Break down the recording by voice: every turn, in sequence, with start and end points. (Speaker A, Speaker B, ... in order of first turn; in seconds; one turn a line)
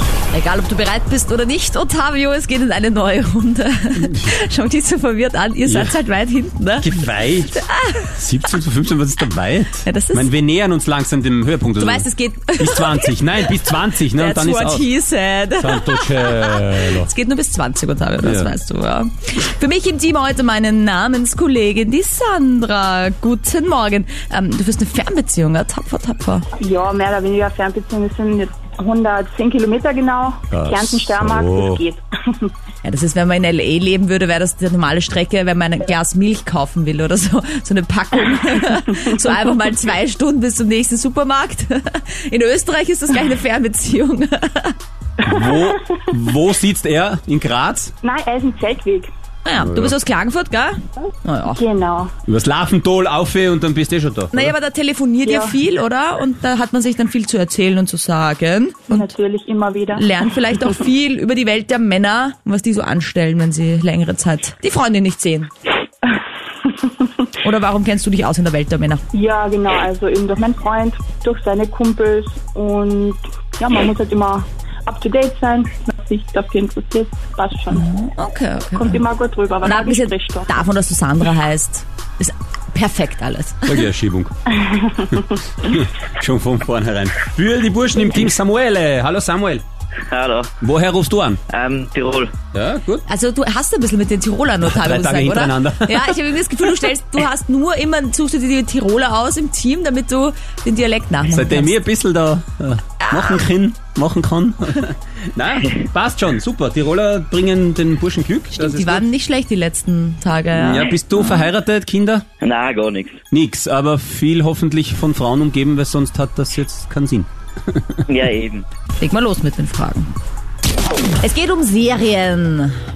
Speaker A: 0.3-6.9
Speaker B: 5.7-6.0
Speaker B: 6.8-7.6
Speaker A: 7.5-8.2
Speaker B: 8.2-14.9
Speaker A: 9.9-10.3
Speaker A: 11.8-26.4
Speaker B: 15.6-17.1
Speaker B: 18.2-18.5
Speaker C: 26.6-32.5
Speaker B: 30.5-31.8
Speaker A: 32.8-44.8
Speaker B: 45.2-47.9
Speaker C: 48.0-49.1
Speaker A: 49.5-51.6
Speaker B: 49.5-50.0
Speaker C: 51.5-52.1
Speaker B: 52.3-54.5
Speaker A: 54.3-59.1
Speaker C: 55.2-55.5
Speaker C: 58.9-60.0
Speaker A: 60.0-65.5
Speaker A: 67.4-69.0
Speaker C: 69.1-77.8
Speaker A: 77.7-79.0
Speaker C: 78.7-80.5
Speaker A: 79.6-83.9
Speaker B: 83.7-84.3
Speaker C: 84.6-84.9
Speaker B: 85.6-89.6
Speaker D: 90.1-90.5
Speaker B: 90.6-91.4
Speaker D: 91.5-92.3
Speaker B: 92.5-93.0
Speaker A: 93.1-101.8
Speaker B: 94.6-96.3
Speaker B: 101.3-109.0
Speaker A: 103.0-103.4
Speaker A: 108.5-111.5
Speaker B: 110.5-112.2
Speaker D: 112.4-113.2
Speaker B: 113.3-118.0
Speaker D: 118.1-118.6
Speaker A: 119.0-120.1
Speaker A: 121.2-122.8